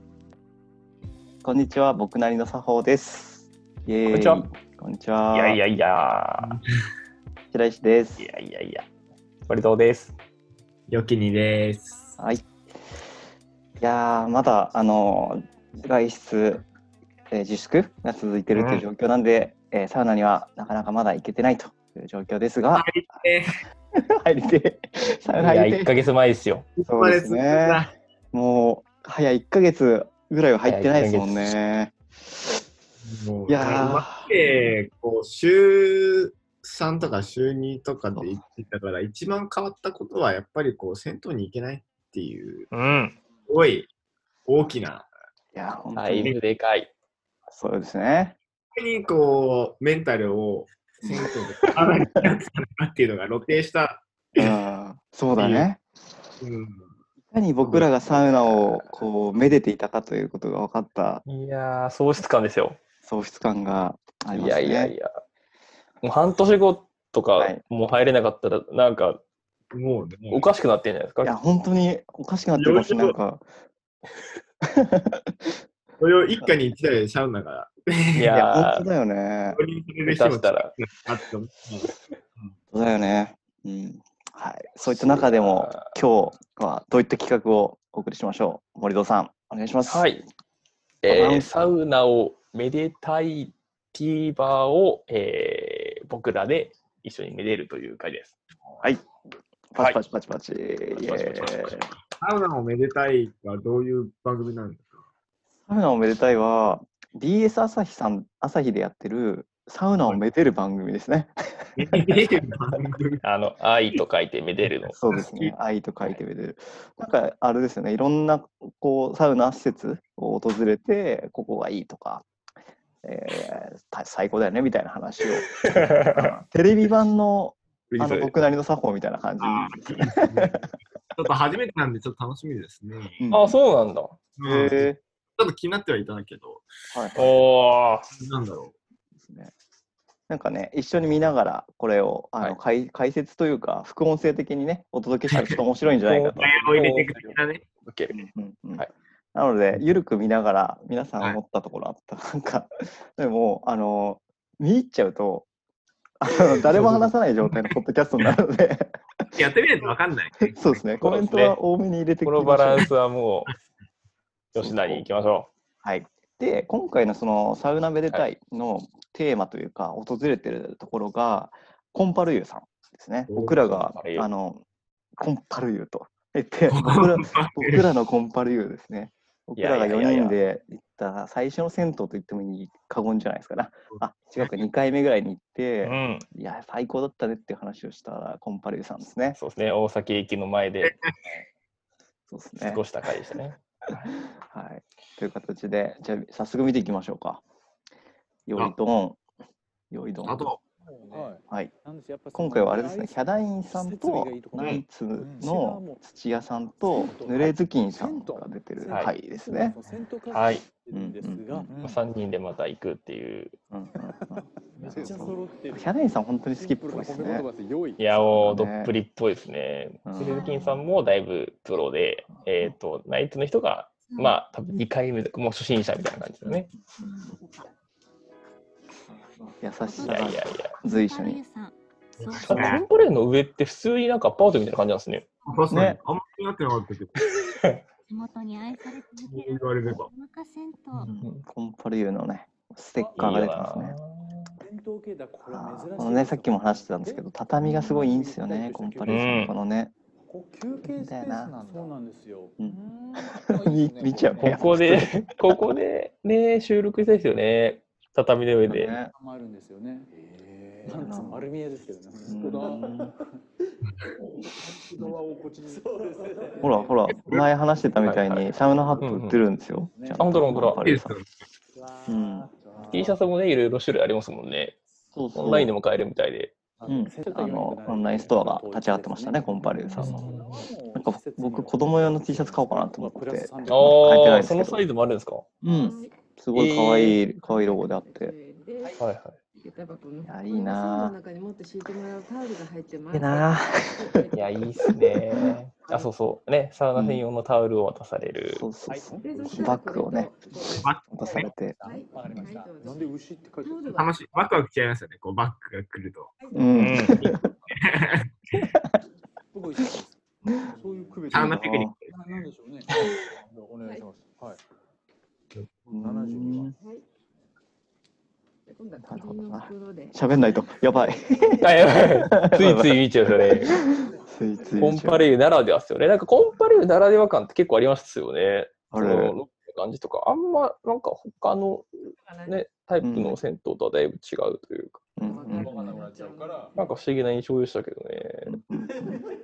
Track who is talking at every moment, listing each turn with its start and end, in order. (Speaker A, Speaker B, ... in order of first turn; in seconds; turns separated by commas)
Speaker A: 1.4-5.6, Speaker B: 4.1-4.5, Speaker B: 5.3-6.5, Speaker A: 7.5-8.3, Speaker B: 8.2-8.8, Speaker B: 9.5-10.2, Speaker C: 10.9-12.2, Speaker A: 13.8-16.6, Speaker A: 17.3-23.0, Speaker B: 18.6-18.8, Speaker C: 22.8-23.5, Speaker A: 24.1-25.9, Speaker C: 25.3-25.6, Speaker B: 25.4-26.7, Speaker C: 26.8-27.9, Speaker A: 26.9-31.9, Speaker B: 30.6-31.6, Speaker C: 33.0-42.7, Speaker A: 33.5-34.4, Speaker B: 42.7-43.2, Speaker C: 43.5-43.9, Speaker C: 44.5-45.1, Speaker A: 45.5-46.4, Speaker B: 46.0-46.9, Speaker A: 47.5-48.4, Speaker C: 48.8-54.6, Speaker A: 51.0-51.3, Speaker A: 54.4-55.8, Speaker C: 55.4-55.7, Speaker C: 56.4-56.9, Speaker A: 57.3-61.2, Speaker C: 57.6-58.0, Speaker B: 58.1-58.9, Speaker B: 61.3-62.8, Speaker A: 63.0-64.9, Speaker B: 64.3-65.1, Speaker B: 66.0-69.2, Speaker A: 67.4-67.6, Speaker C: 69.7-70.5, Speaker B: 70.3-71.3, Speaker A: 71.2-73.5, Speaker C: 72.6-73.2, Speaker A: 74.7-75.5, Speaker C: 76.0-78.3, Speaker B: 78.2-78.9, Speaker A: 78.3-79.6, Speaker C: 79.5-81.9, Speaker B: 80.0-80.8, Speaker A: 82.7-90.2, Speaker B: 84.9-85.9, Speaker B: 89.8-90.2, Speaker B: 91.0-99.0, Speaker A: 91.1-91.7, Speaker A: 99.7-101.9, Speaker B: 99.8-100.0, Speaker B: 100.9-101.9, Speaker C: 102.2-105.0, Speaker A: 105.7-112.1, Speaker C: 111.8-113.2, Speaker B: 113.2-115.0, Speaker A: 114.9-122.2, Speaker C: 115.1-115.5, Speaker A: 123.0-130.5, Speaker B: 125.4-126.3, Speaker B: 127.9-128.3, Speaker C: 129.4-130.6, Speaker C: 131.2-133.2, Speaker A: 133.2-133.6, Speaker B: 133.3-134.2, Speaker C: 134.4-136.7, Speaker A: 134.4-135.0, Speaker A: 136.9-137.3, Speaker B: 137.2-138.1, Speaker C: 138.2-138.7, Speaker A: 139.2-139.5, Speaker A: 140.3-146.6, Speaker B: 145.3-148.9, Speaker C: 146.4-147.6, Speaker A: 148.1-155.5, Speaker A: 156.2-158.9, Speaker B: 156.7-157.1, Speaker C: 159.4-161.0, Speaker A: 160.5-162.9, Speaker B: 161.0-161.6, Speaker B: 162.2-163.5, Speaker B: 164.5-165.5, Speaker A: 164.6-165.1, Speaker A: 165.8-174.6, Speaker C: 173.3-173.6, Speaker B: 173.5-174.3, Speaker A: 175.2-189.4, Speaker C: 176.7-177.9, Speaker B: 179.6-180.4, Speaker C: 183.9-184.6, Speaker B: 185.8-186.2, Speaker B: 189.4-190.9, Speaker C: 190.8-191.1, Speaker A: 192.3-192.8, Speaker B: 192.6-194.1, Speaker A: 194.3-197.4, Speaker A: 198.5-199.2, Speaker A: 199.9-200.5, Speaker C: 200.2-200.6, Speaker D: 200.8-206.1, Speaker A: 202.3-209.8, Speaker C: 204.6-204.8, Speaker D: 206.9-212.0, Speaker B: 210.3-210.7, Speaker A: 210.9-211.7, Speaker B: 211.8-213.6, Speaker A: 213.7-217.5, Speaker D: 214.4-218.1, Speaker B: 218.0-226.7, Speaker A: 218.3-218.9, Speaker A: 220.1-220.8, Speaker E: 220.2-220.8, Speaker A: 222.4-222.8, Speaker E: 224.1-224.4, Speaker E: 227.0-227.7, Speaker A: 229.4-231.4, Speaker E: 229.8-232.8, Speaker B: 230.0-230.7, Speaker C: 232.2-232.8, Speaker B: 232.4-235.2, Speaker C: 235.5-237.2, Speaker A: 235.7-236.0, Speaker B: 237.3-237.8, Speaker E: 238.1-241.1, Speaker C: 239.3-240.1, Speaker A: 241.0-244.0, Speaker D: 243.0-243.4, Speaker B: 243.2-244.5, Speaker D: 244.6-249.5, Speaker A: 245.4-249.9, Speaker B: 249.1-249.6, Speaker D: 250.3-254.7, Speaker A: 250.8-251.6, Speaker A: 253.3-255.5, Speaker B: 254.4-258.9, Speaker A: 258.7-259.1, Speaker D: 259.2-263.2, Speaker A: 260.9-261.5, Speaker A: 262.3-263.2, Speaker D: 264.4-266.9, Speaker A: 266.6-271.1, Speaker C: 267.1-267.5, Speaker B: 268.0-269.4, Speaker D: 268.7-269.0, Speaker D: 269.9-270.4, Speaker B: 270.1-270.8, Speaker C: 270.7-271.5, Speaker D: 271.8-273.2, Speaker A: 272.1-272.5, Speaker B: 272.9-274.8, Speaker A: 275.1-275.7, Speaker B: 275.4-276.5, Speaker D: 276.8-284.4, Speaker A: 276.9-280.3, Speaker B: 280.0-280.6, Speaker A: 280.9-284.8, Speaker B: 283.7-285.5, Speaker A: 285.6-288.4, Speaker F: 285.7-286.2, Speaker B: 286.5-287.2, Speaker F: 287.3-289.0, Speaker B: 289.0-289.4, Speaker F: 289.6-294.5, Speaker A: 290.2-291.1, Speaker A: 293.1-293.8, Speaker B: 294.3-298.6, Speaker A: 296.9-297.2, Speaker A: 298.5-300.4, Speaker D: 298.9-300.8, Speaker F: 299.2-301.1, Speaker C: 300.8-301.5, Speaker A: 301.1-302.6, Speaker D: 301.6-304.1, Speaker F: 301.8-304.2, Speaker C: 303.9-306.4, Speaker A: 306.5-307.5, Speaker B: 306.8-307.3, Speaker C: 307.1-308.7, Speaker A: 308.6-309.0, Speaker D: 309.5-311.6, Speaker C: 311.3-312.5, Speaker A: 311.3-312.0, Speaker D: 312.1-314.6, Speaker F: 313.8-314.1, Speaker A: 315.9-316.8, Speaker D: 316.0-316.7, Speaker F: 316.8-317.1, Speaker F: 318.7-320.2, Speaker A: 319.0-325.3, Speaker B: 321.6-323.8, Speaker B: 324.8-335.1, Speaker A: 328.9-329.4, Speaker F: 332.2-332.6, Speaker A: 333.0-333.4, Speaker A: 335.2-335.9, Speaker F: 335.2-336.8, Speaker D: 335.5-336.7, Speaker B: 336.8-338.6, Speaker A: 338.5-339.1